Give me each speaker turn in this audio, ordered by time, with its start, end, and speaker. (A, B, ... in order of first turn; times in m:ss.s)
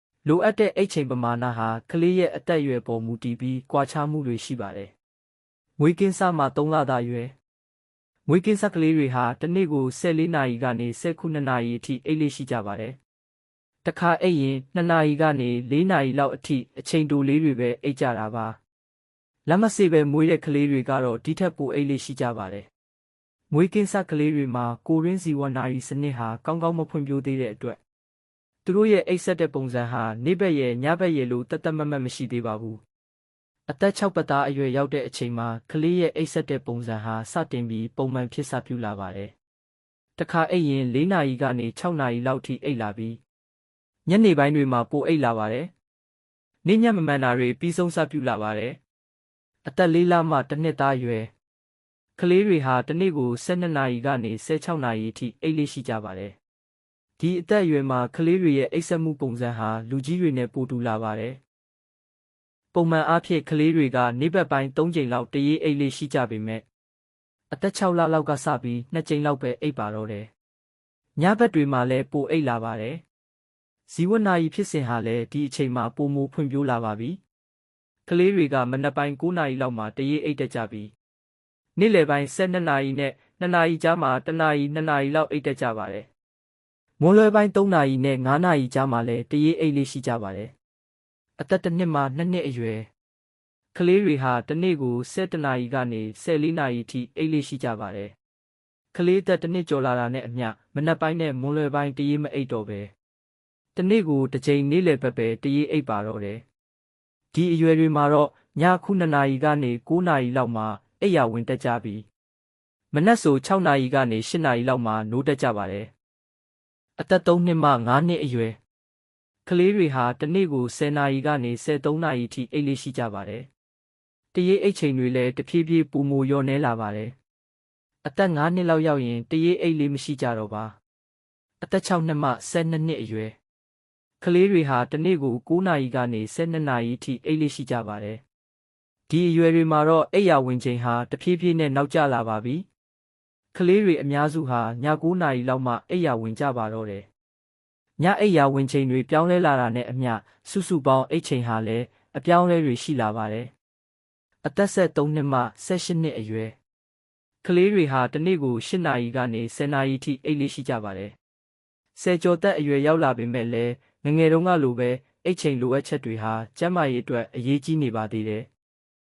0:00.2-0:04.9 A
0:05.8-0:07.3 A
0:08.3-0:13.0 A
0:13.8-0:18.6 A
0:19.4-0:22.7 A
0:23.5-0:27.8 A
0:28.6-0:32.8 A
0:33.7-0:39.3 A
0:40.2-0:43.2 A
0:44.0-0:45.7 A
0:46.6-0:48.8 A
0:49.6-0:51.3 A
0:52.2-0:56.4 A
0:57.2-1:01.4 A
1:02.7-1:06.6 A
1:07.5-1:10.3 A
1:11.2-1:13.0 A
1:13.9-1:17.2 A
1:18.0-1:20.9 A
1:21.8-1:26.1 A
1:27.0-1:30.5 A
1:31.4-1:32.9 A
1:33.7-1:38.1 A
1:38.9-1:42.9 A
1:43.7-1:46.4 A
1:47.3-1:52.0 A
1:52.9-1:55.9 A
1:57.0-1:58.6 A
1:59.4-2:03.5 A
2:04.3-2:07.2 A
2:08.0-2:10.8 A
2:11.6-2:13.4 A
2:14.2-2:18.2 A
2:19.1-2:22.7 A
2:23.5-2:27.1 A
2:28.0-2:33.5 A
2:34.4-2:36.6 A
2:37.4-2:41.2 A
2:41.9-2:48.5 A